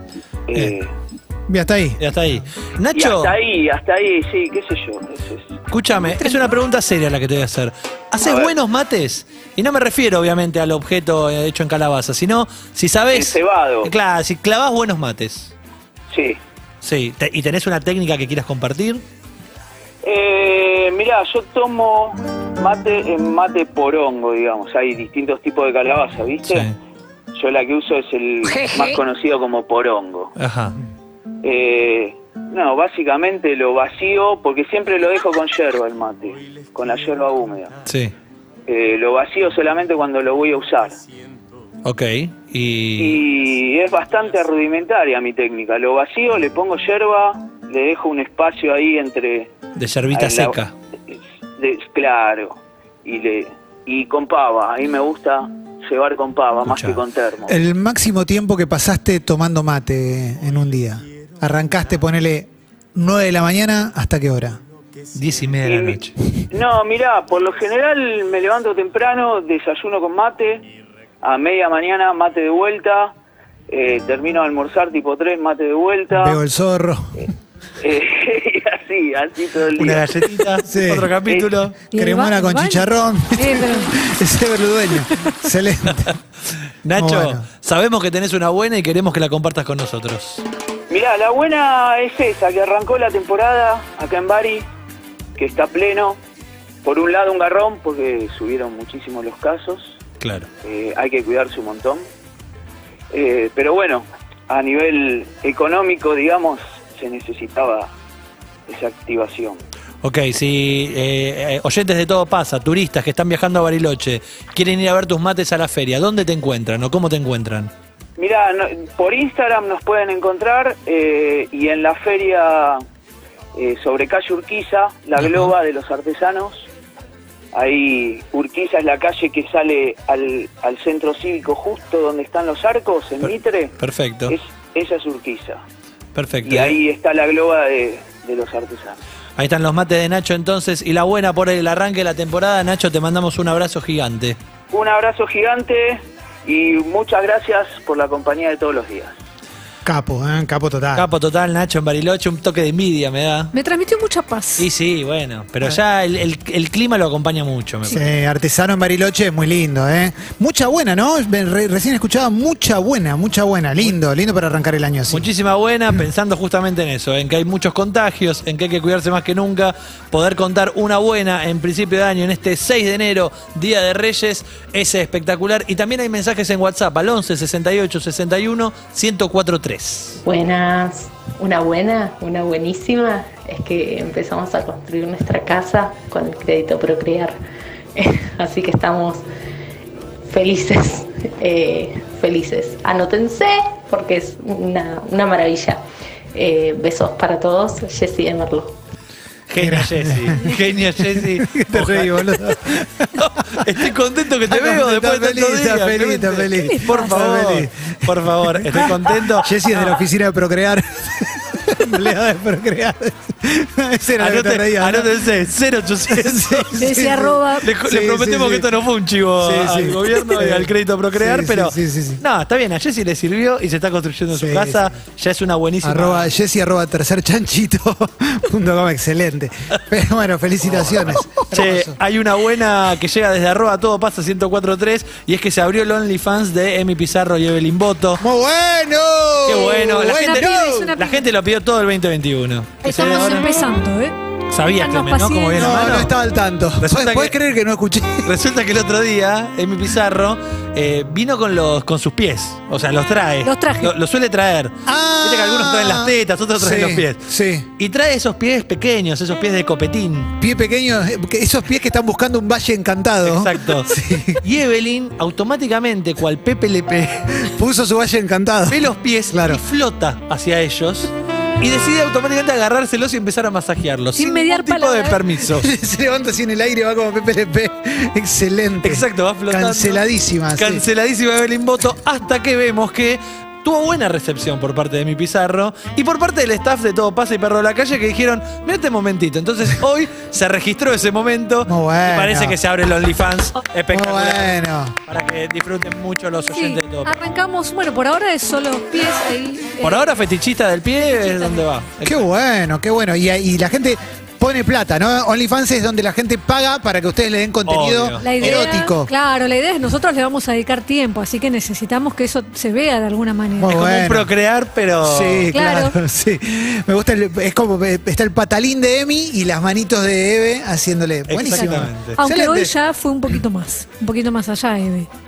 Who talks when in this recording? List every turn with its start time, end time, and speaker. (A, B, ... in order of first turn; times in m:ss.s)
0:00.5-0:00.9 A
0:01.5-0:02.0 B
0:02.0-0:03.4 C
0:02.9-0:05.6 A
0:05.7-0:15.5 C
0:08.2-0:08.5 A
0:13.1-0:13.9 A
0:16.1-0:16.4 A
0:16.8-0:19.0 C
0:20.0-0:26.7 A
0:26.5-0:26.8 C
0:27.3-0:30.3 A
0:28.4-0:29.0 D
0:30.4-0:30.8 C
0:31.4-0:37.8 A
0:37.8-0:38.1 C
0:38.7-0:41.0 A
0:41.8-0:43.2 C
0:43.0-0:49.6 A
0:49.8-0:50.7 C
0:50.1-0:50.6 A
0:51.1-0:57.6 A
0:56.6-0:57.0 C
0:57.5-1:04.6 B
1:05.1-1:06.2 C
1:05.6-1:06.0 A
1:06.5-1:10.6 A
1:11.2-1:13.1 A
1:13.7-1:16.4 A
1:16.1-1:17.3 B
1:17.8-1:20.4 A
1:19.8-1:21.8 C
1:20.6-1:21.1 B
1:21.3-1:21.6 A
1:21.9-1:23.9 D
1:21.9-1:26.2 B
1:26.8-1:30.4 C
1:27.0-1:27.4 B
1:30.9-1:34.7 A
1:35.4-1:36.2 A
1:36.8-1:40.0 A
1:40.2-1:40.5 C
1:40.6-1:42.1 A
1:43.1-1:47.9 A
1:48.7-1:49.6 A
1:50.0-1:57.7 C
1:58.2-2:02.8 A
2:03.6-2:06.7 A
2:05.2-2:05.5 C
2:07.5-2:13.8 A
2:13.2-2:14.4 C
2:14.3-2:15.6 A
2:16.2-2:16.8 C
2:16.4-2:19.0 A
2:19.4-2:24.4 C
2:24.7-2:29.2 A
2:29.8-2:31.1 B
2:31.0-2:33.5 C
2:33.5-2:34.7 D
2:34.6-2:38.0 C
2:37.9-2:45.3 B
2:45.1-3:00.2 C
3:00.2-3:07.4 E
3:08.0-3:09.2 E
3:10.3-3:18.8 E
3:19.5-3:30.0 C
3:19.6-3:23.9 B
3:24.4-3:35.2 B
3:26.7-3:27.1 D
3:34.2-3:36.7 C
3:36.1-3:38.7 B
3:36.8-3:37.7 D
3:37.6-3:46.3 C
3:39.4-3:42.2 B
3:44.3-3:44.9 B
3:45.8-3:52.0 B
3:50.7-3:58.2 C
3:58.2-4:01.0 B
3:59.5-4:03.6 C
4:00.0-4:01.2 D
4:02.8-4:04.2 D
4:04.5-4:06.1 C
4:04.7-4:05.7 D
4:05.6-4:08.3 B
4:06.8-4:07.4 C
4:08.2-4:17.2 C
4:13.4-4:13.9 D
4:14.9-4:17.7 B
4:17.8-4:20.3 C
4:20.4-4:24.4 B
4:23.2-4:27.5 C
4:27.4-4:29.6 B
4:28.7-4:35.7 C
4:34.2-4:35.2 D
4:35.4-4:40.8 B
4:38.8-4:57.1 C
4:51.6-4:52.6 B
4:53.9-4:55.0 B
4:56.5-5:00.0 D
4:59.8-5:02.3 C
5:01.0-5:01.6 D
5:02.0-5:09.1 B
5:07.7-5:08.6 C
5:08.2-5:13.8 D
5:13.6-5:14.3 B
5:13.7-5:15.5 C
5:15.0-5:22.7 B
5:15.5-5:16.0 D
5:21.3-5:22.2 C
5:21.4-5:25.1 D